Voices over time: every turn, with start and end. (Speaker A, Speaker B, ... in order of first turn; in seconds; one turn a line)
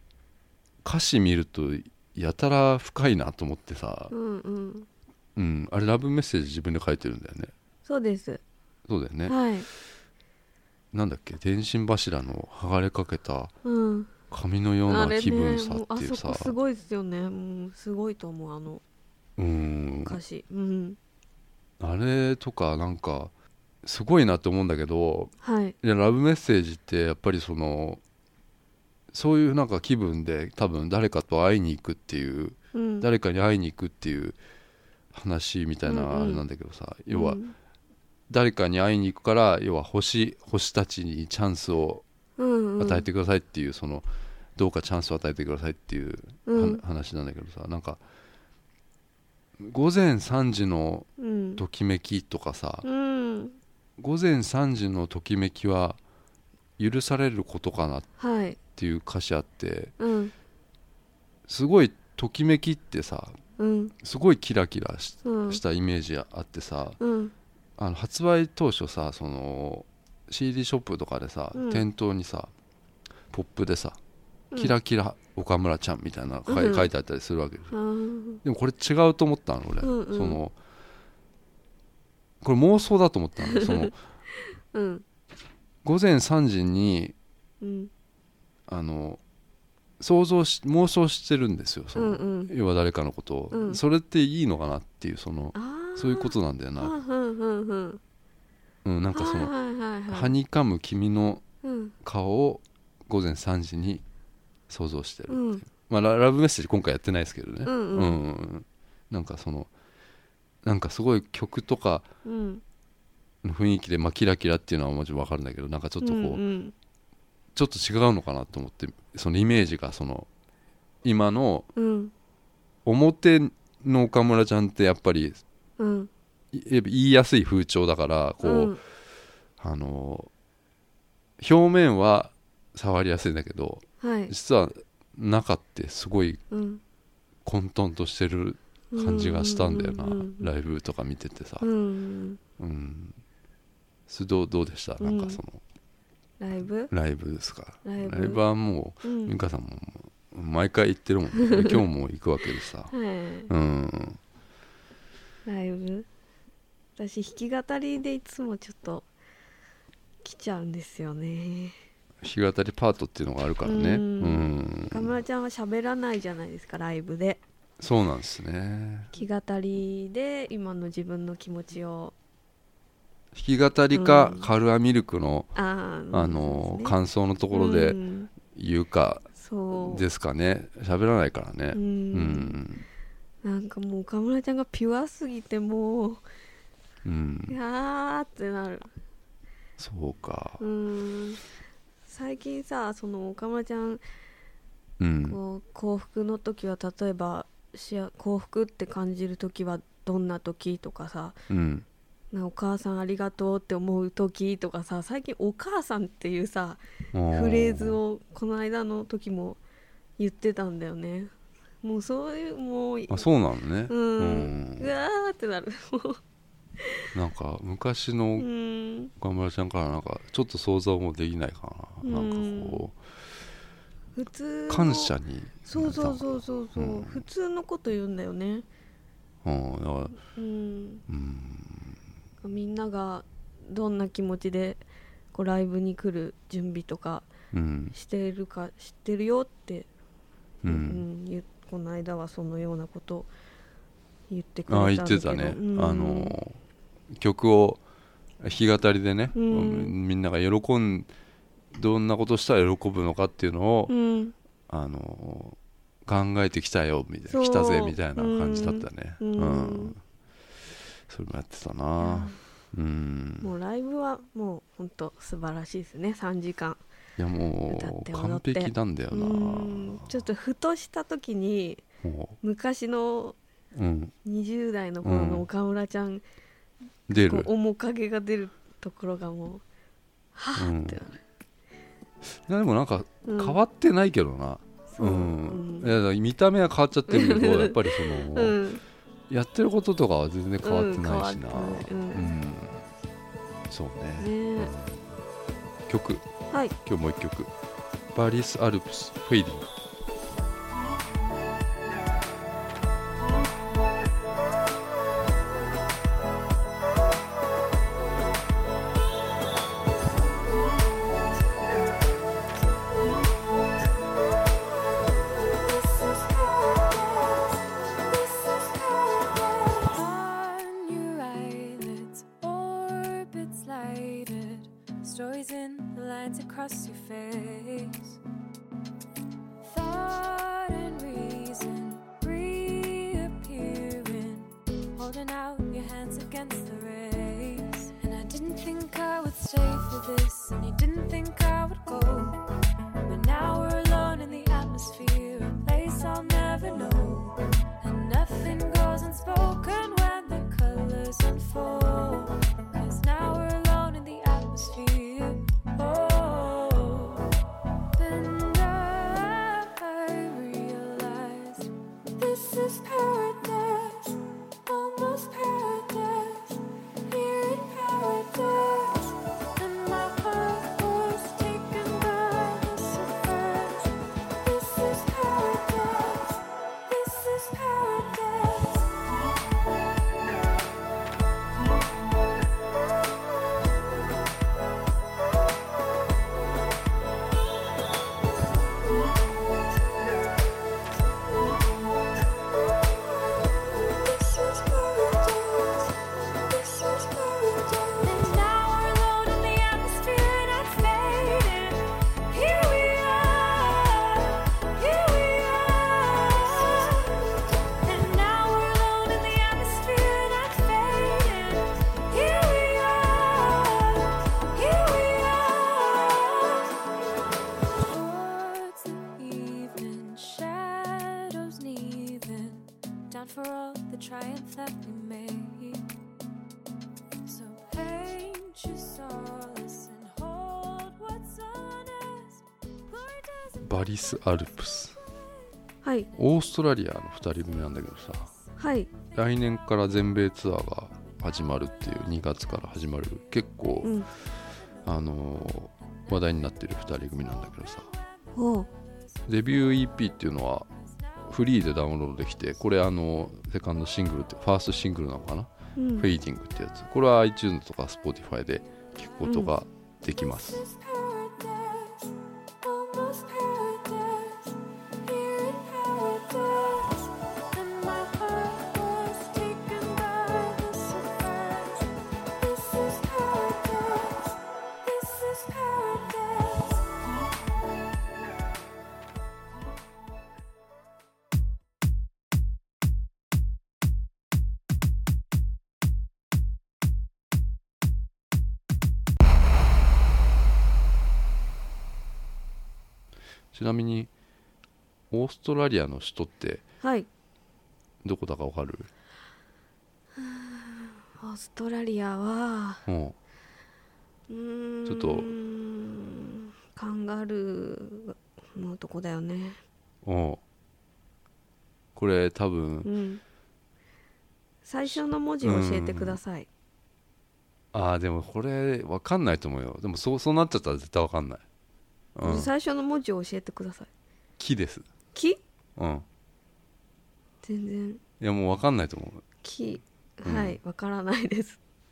Speaker A: 0.8-4.1
Speaker B: 4.1-4.9
Speaker A: 5.3-7.5
Speaker B: 7.8-8.4
Speaker A: 8.9-9.4
Speaker B: 9.2-9.7
Speaker A: 10.9-13.5
Speaker B: 13.6-14.1
Speaker A: 14.3-16.5
Speaker B: 14.8-18.8
Speaker A: 19.4-20.2
Speaker B: 20.1-21.0
Speaker A: 21.8-23.3
Speaker A: 23.8-28.0
Speaker B: 25.4-25.8
Speaker A: 29.1-34.4
Speaker B: 32.7-33.1
Speaker A: 35.1-37.4
Speaker B: 35.9-36.4
Speaker B: 37.1-37.5
Speaker A: 38.3-42.0
Speaker B: 42.4-43.0
Speaker A: 42.8-48.0
Speaker B: 46.5-46.8
Speaker A: 49.6-52.9
Speaker B: 51.2-51.6
Speaker B: 52.8-53.6
Speaker A: 54.0-56.0
Speaker A: 56.8-58.1
Speaker B: 58.2-58.6
Speaker A: 58.7-59.9
Speaker B: 60.0-60.3
Speaker A: 61.5-63.4
Speaker B: 63.6-63.9
Speaker A: 64.0-67.0
Speaker B: 65.2-65.6
Speaker B: 67.0-67.3
Speaker A: 67.8-72.5
Speaker B: 71.5-71.8
Speaker A: 73.3-74.0
Speaker A: 74.5-77.7
Speaker B: 76.5-76.9
Speaker B: 77.7-78.4
Speaker A: 78.4-80.5
Speaker B: 79.8-80.4
Speaker A: 82.4-84.0
Speaker B: 83.5-83.9
Speaker B: 84.7-85.0
Speaker A: 85.8-87.1
Speaker B: 87.6-87.9
Speaker A: 88.7-89.2
Speaker A: 90.0-96.9
Speaker B: 91.9-92.5
Speaker B: 93.5-93.8
Speaker B: 95.5-98.0
Speaker A: 98.8-99.5
Speaker B: 99.1-100.4
Speaker A: 100.1-101.4
Speaker B: 101.6-101.9
Speaker A: 102.0-104.0
Speaker A: 104.7-109.7
Speaker B: 105.3-105.6
Speaker B: 107.7-108.2
Speaker A: 110.6-112.1
Speaker B: 112.2-112.6
Speaker A: 113.4-116.4
Speaker B: 116.0-116.7
Speaker A: 117.5-120.3
Speaker A: 121.0-121.7
Speaker B: 121.7-122.1
Speaker A: 122.8-125.4
Speaker B: 125.8-126.1
Speaker A: 126.5-128.8
Speaker B: 128.4-128.8
Speaker A: 129.6-130.3
Speaker A: 131.4-136.4
Speaker B: 134.0-134.3
Speaker B: 136.5-136.8
Speaker A: 137.4-141.7
Speaker B: 138.9-140.5
Speaker B: 141.6-142.4
Speaker A: 142.6-143.2
Speaker A: 144.1-145.6
Speaker B: 145.0-145.4
Speaker B: 146.4-146.9
Speaker A: 146.9-152.9
Speaker B: 147.8-148.4
Speaker B: 149.0-149.3
Speaker B: 152.9-153.5
Speaker A: 153.5-154.2
Speaker B: 155.4-156.1
Speaker B: 157.0-159.1
Speaker B: 160.2-161.8
Speaker A: 162.2-165.2
Speaker B: 163.6-167.4
Speaker A: 167.8-169.1
Speaker B: 169.1-172.1
Speaker A: 173.3-175.5
Speaker B: 173.9-174.5
Speaker B: 175.5-176.9
Speaker A: 176.1-182.8
Speaker B: 177.5-178.3
Speaker B: 179.4-180.0
Speaker B: 181.7-182.6
Speaker B: 183.4-186.2
Speaker A: 187.0-187.6
Speaker B: 187.5-188.9
Speaker A: 189.8-190.6
Speaker B: 190.6-191.4
Speaker B: 192.1-194.0
Speaker A: 195.0-195.4
Speaker B: 195.2-201.4
Speaker A: 201.5-201.8
Speaker B: 202.3-209.6
Speaker A: 207.1-208.0
Speaker B: 210.2-213.3
Speaker A: 213.1-214.9
Speaker B: 213.9-216.2
Speaker B: 216.8-217.1
Speaker A: 217.1-218.5
Speaker B: 218.4-219.1
Speaker A: 219.2-222.9
Speaker B: 222.0-222.9
Speaker B: 224.1-225.1
Speaker A: 224.7-227.2
Speaker B: 225.7-228.7
Speaker A: 229.4-230.2
Speaker B: 230.2-231.0
Speaker A: 231.1-232.0
Speaker B: 232.4-237.3
Speaker A: 237.5-237.9
Speaker B: 237.9-239.9
Speaker A: 240.6-241.0
Speaker B: 240.6-243.3
Speaker B: 244.3-246.3
Speaker A: 244.7-246.6
Speaker A: 247.1-247.8
Speaker A: 248.4-251.1
Speaker B: 249.3-249.9
Speaker A: 251.7-253.9
Speaker B: 253.9-254.3
Speaker A: 254.7-260.0
Speaker B: 257.3-259.9
Speaker A: 261.1-263.5
Speaker B: 262.0-262.4
Speaker B: 263.4-266.8
Speaker A: 267.2-270.2
Speaker B: 267.7-271.8
Speaker A: 272.0-272.4
Speaker B: 272.4-273.4
Speaker A: 273.7-274.1
Speaker B: 274.2-276.2
Speaker A: 275.0-275.4
Speaker A: 277.1-277.5
Speaker B: 277.1-279.6
Speaker B: 280.3-281.2
Speaker A: 280.6-281.0
Speaker A: 282.2-288.6
Speaker B: 283.2-283.6
Speaker B: 284.9-285.9
Speaker B: 287.1-288.8
Speaker A: 289.3-292.9
Speaker B: 290.6-292.3
Speaker A: 293.7-295.1
Speaker B: 294.2-294.7
Speaker A: 295.9-296.2
Speaker B: 296.5-296.7
Speaker A: 296.8-297.5
Speaker A: 298.1-299.7
Speaker C: 315.5-328.2
Speaker C: 329.6-342.4
Speaker C: 343.0-357.4
Speaker C: 357.9-379.2
Speaker C: 380.1-380.5
Speaker C: 393.8-395.9
Speaker C: 396.5-407.2
Speaker C: 407.8-416.9
Speaker C: 417.8-425.8
Speaker C: 427.2-433.8
Speaker A: 433.6-434.9
Speaker B: 435.8-436.1
Speaker A: 436.1-438.3
Speaker B: 438.6-438.9
Speaker A: 439.1-444.0
Speaker B: 443.8-444.1
Speaker A: 444.8-447.9
Speaker B: 448.3-448.7
Speaker A: 449.2-450.7
Speaker A: 451.2-460.6
Speaker B: 455.8-456.1
Speaker B: 459.2-459.5
Speaker C: 460.5-464.5
Speaker C: 465.0-477.1
Speaker A: 493.5-494.1
Speaker A: 495.1-496.6
Speaker B: 496.8-497.1
Speaker A: 498.0-498.9
Speaker B: 500.1-502.8
Speaker A: 502.9-503.1
Speaker B: 504.3-509.6
Speaker A: 504.9-505.3
Speaker A: 510.0-510.4
Speaker A: 511.9-512.9
Speaker B: 512.8-513.2
Speaker B: 514.6-516.5
Speaker A: 514.9-516.2
Speaker A: 517.7-521.4
Speaker A: 522.1-522.5
Speaker B: 522.2-523.9
Speaker A: 524.4-524.9
Speaker B: 525.1-525.4
Speaker A: 525.8-526.0
Speaker B: 527.4-528.0
Speaker A: 528.2-529.2
Speaker B: 529.4-531.6
Speaker A: 530.2-530.6